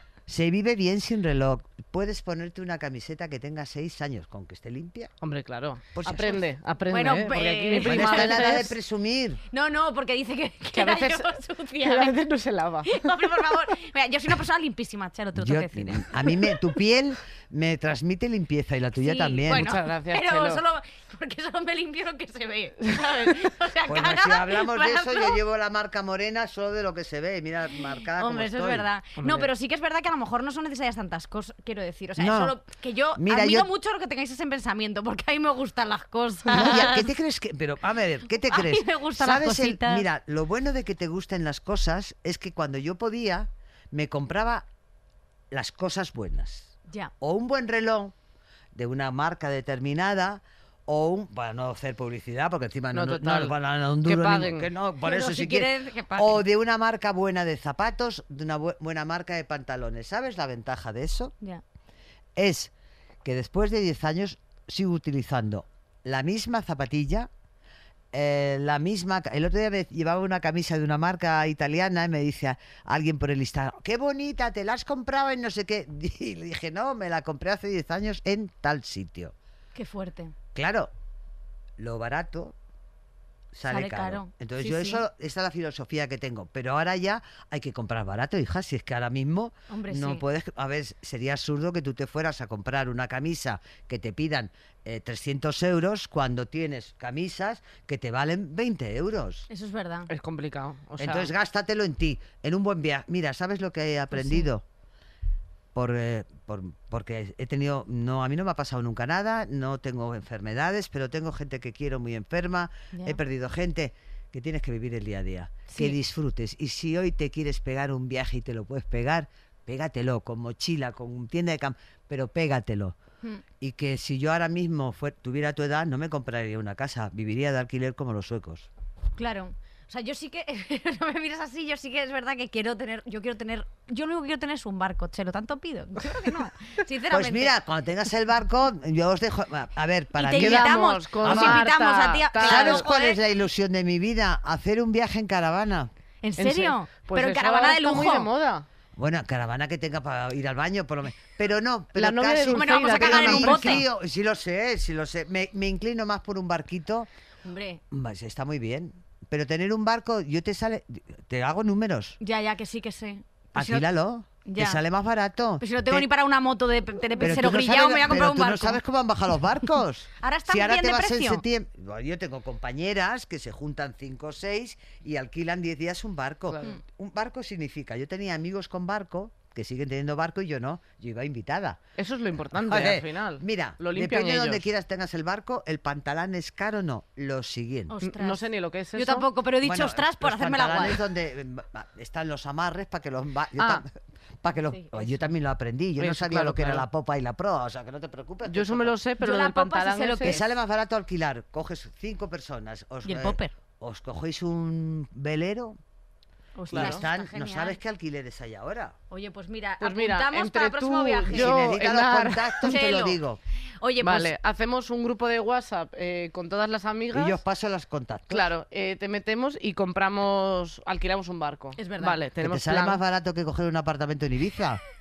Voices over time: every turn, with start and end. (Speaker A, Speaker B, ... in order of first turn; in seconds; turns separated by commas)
Speaker A: 0.3-5.1, Speaker B: 5.2-8.7, Speaker A: 5.9-6.5, Speaker C: 6.9-8.7, Speaker A: 7.8-9.4, Speaker C: 9.5-12.2, Speaker B: 10.7-13.2, Speaker C: 12.8-16.6, Speaker A: 15.3-19.7, Speaker C: 18.9-25.4, Speaker B: 19.5-20.6, Speaker A: 23.9-28.9, Speaker C: 28.1-37.1, Speaker B: 29.2-29.5, Speaker A: 32.2-32.6, Speaker A: 33.1-33.7, Speaker A: 36.5-44.6, Speaker C: 38.5-40.0, Speaker A: 45.5-48.1, Speaker A: 48.7-61.3, Speaker B: 52.9-54.7, Speaker C: 55.0-56.4, Speaker A: 62.4-62.7, Speaker A: 63.2-67.3, Speaker A: 68.1-79.3, Speaker C: 79.7-80.3, Speaker A: 80.5-80.9, Speaker A: 81.8-82.5, Speaker A: 83.5-99.5, Speaker C: 83.7-85.0, Speaker C: 89.7-90.2, Speaker C: 99.5-100.1, Speaker B: 100.1-101.3, Speaker A: 101.0-104.6, Speaker C: 104.1-104.5, Speaker A: 105.7-123.0, Speaker C: 112.9-113.2, Speaker C: 115.7-116.0, Speaker A: 123.6-128.7, Speaker C: 129.2-137.5, Speaker A: 137.1-141.6, Speaker C: 140.2-143.2, Speaker B: 140.4-142.9, Speaker A: 142.4-145.9, Speaker C: 146.2-148.3, Speaker B: 146.4-148.6, Speaker A: 148.9-157.1, Speaker B: 151.9-153.8, Speaker C: 152.5-153.8, Speaker C: 157.4-157.8, Speaker A: 157.9-162.2, Speaker C: 162.2-163.9, Speaker A: 163.5-166.1, Speaker C: 164.4-164.8, Speaker C: 165.6-168.8, Speaker A: 167.2-181.8, Speaker C: 170.2-171.4, Speaker B: 176.5-176.7, Speaker B: 182.0-184.7, Speaker A: 182.5-187.9, Speaker C: 187.9-191.0, Speaker B: 188.0-189.3, Speaker A: 189.6-193.9, Speaker B: 193.6-193.8, Speaker A: 194.4-198.9, Speaker C: 194.7-195.1, Speaker B: 196.0-196.8, Speaker B: 198.5-200.4, Speaker C: 199.2-200.4, Speaker A: 200.2-205.8, Speaker C: 203.0-203.5, Speaker C: 206.6-207.8, Speaker B: 206.7-207.0, Speaker A: 206.7-209.0, Speaker C: 209.1-211.6, Speaker B: 209.8-212.8, Speaker A: 211.3-213.4, Speaker C: 212.7-213.2, Speaker C: 213.8-214.3, Speaker B: 214.0-217.4, Speaker A: 217.1-218.5, Speaker B: 218.3-223.0, Speaker C: 221.8-222.2, Speaker A: 222.4-224.8